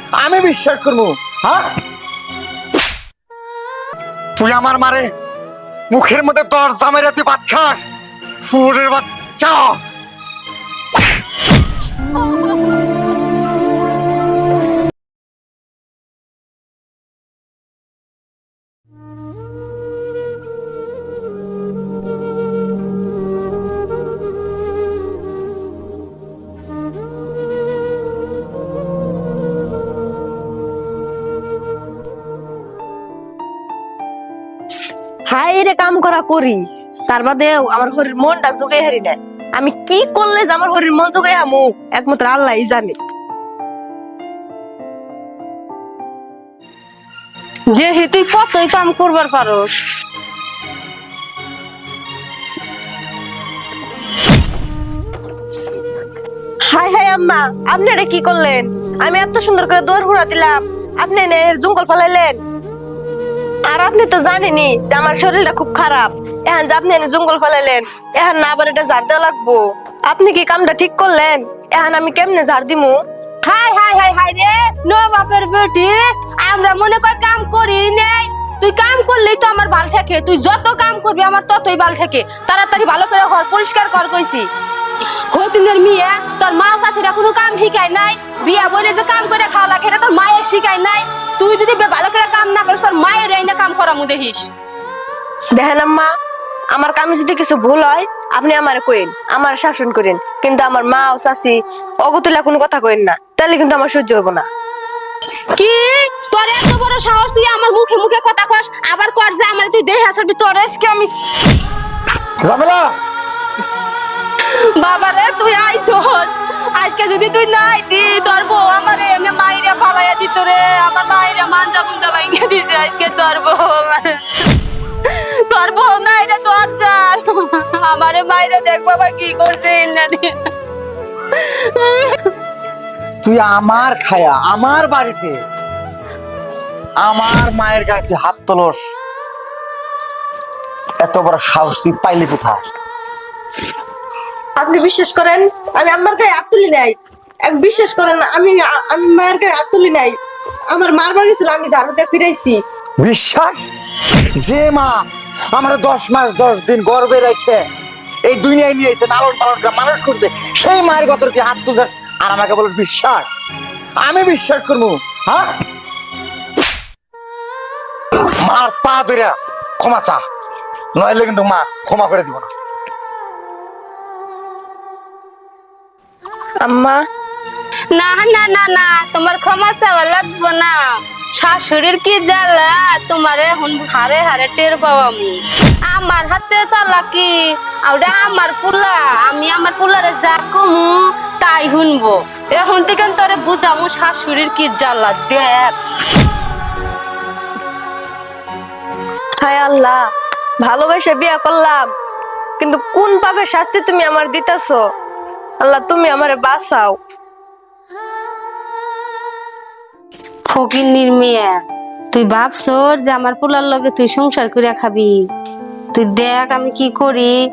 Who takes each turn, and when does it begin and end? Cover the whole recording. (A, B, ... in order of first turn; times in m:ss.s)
0:00.2-0:01.7 A
0:04.4-0:05.1 A
0:05.9-0:07.8 A
0:08.5-0:09.8 A
0:35.3-0:43.0 B
0:47.7-0:49.7 C
0:56.7-1:02.4 B
1:03.7-1:13.0 B
1:13.4-1:24.5 C
1:25.3-1:34.5 C
1:35.5-1:36.1 B
1:36.7-1:44.5 B
1:45.5-1:51.1 C
1:52.4-1:52.8 A
1:54.4-2:04.2 C
2:05.0-2:10.4 C
2:11.3-2:12.2 C
2:13.2-2:15.4 A
2:17.0-2:18.8 A
2:21.0-2:22.6 A
2:24.6-2:30.2 B
2:30.7-2:32.6 B
2:33.0-2:33.6 A
2:34.4-2:35.0 A
2:35.5-2:37.6 A
2:38.2-2:43.3 A
2:44.0-2:45.5 A
2:48.3-2:50.2 A
2:51.0-2:52.5 A
2:56.6-2:57.0 B
2:57.9-3:00.8 C
3:01.3-3:15.7 C
3:19.4-3:20.0 B
3:20.6-3:21.8 B
3:22.6-3:24.8 B
3:25.6-3:27.0 B
3:30.5-3:31.6 C
3:32.1-3:35.1 C
3:35.9-3:37.3 C